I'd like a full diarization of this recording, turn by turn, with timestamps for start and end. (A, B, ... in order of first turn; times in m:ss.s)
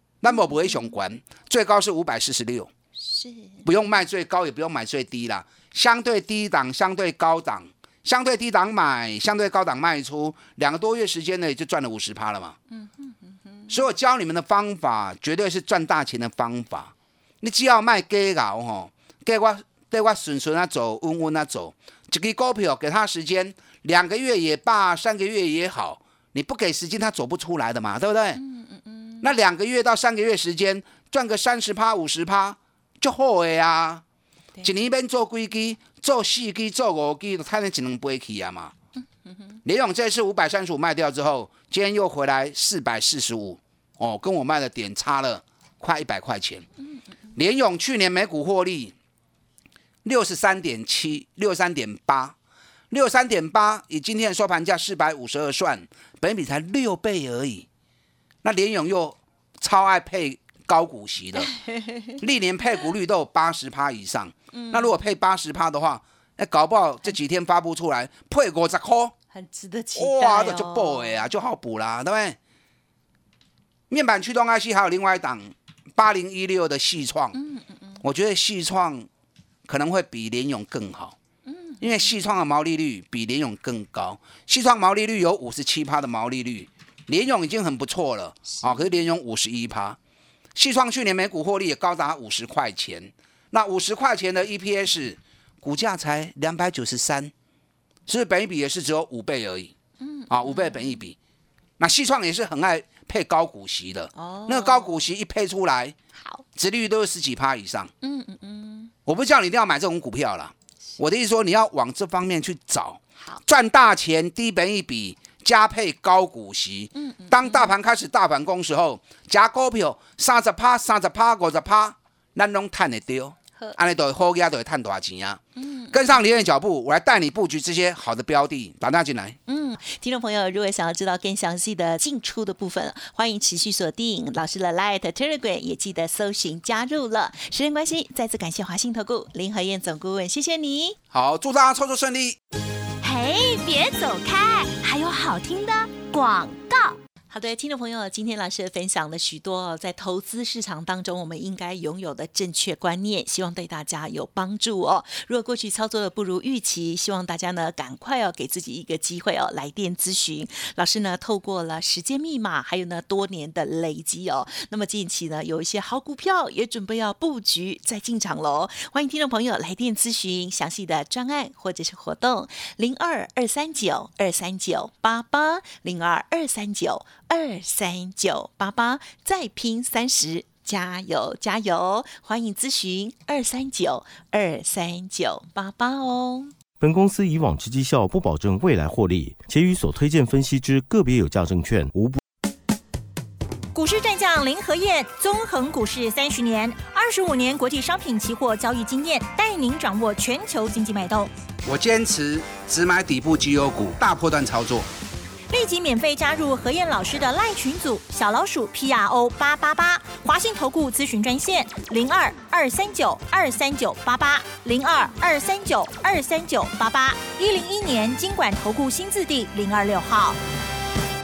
0:00.2-0:02.7 A
0:03.0-0:03.6 B
0:03.6-0:12.6 A
0:12.7-0:13.8 B
0:13.7-0:28.4 A
0:28.3-0:29.3 B
0:29.2-0:34.0 A
0:34.6-0:38.7 A
0:39.2-0:39.5 B
0:39.6-0:46.6 A
0:47.3-0:49.0 A
0:50.0-0:52.4 A
0:52.9-0:57.7 A
0:58.4-1:01.5 A
1:01.4-1:02.2 B
1:02.2-1:09.1 A
1:04.5-1:05.0 B
1:09.3-1:11.2 B
1:10.0-1:12.4 A
1:13.9-1:17.4 A
1:17.3-1:18.0 B
1:18.0-1:19.1 A
1:19.6-1:21.2 A
1:21.4-1:22.2 B
1:21.8-1:30.0 A
1:28.5-1:29.0 B
1:30.5-1:37.3 A
1:38.1-1:39.7 A
1:40.0-1:41.0 B
1:40.3-1:41.2 A
1:41.8-1:46.0 A
1:44.2-1:45.0 B
1:46.2-1:46.4 B
1:46.5-1:47.9 A
1:48.0-1:48.9 B
1:49.0-2:09.4 A
1:57.0-1:57.7 B
2:05.6-2:06.1 B
2:09.5-2:21.0 B
2:21.1-2:22.4 A
2:23.0-2:27.0 C
2:27.3-3:06.5 B
3:06.8-3:12.2 D
3:13.7-3:21.3 E
3:21.6-3:24.9 A
3:25.5-3:40.4 E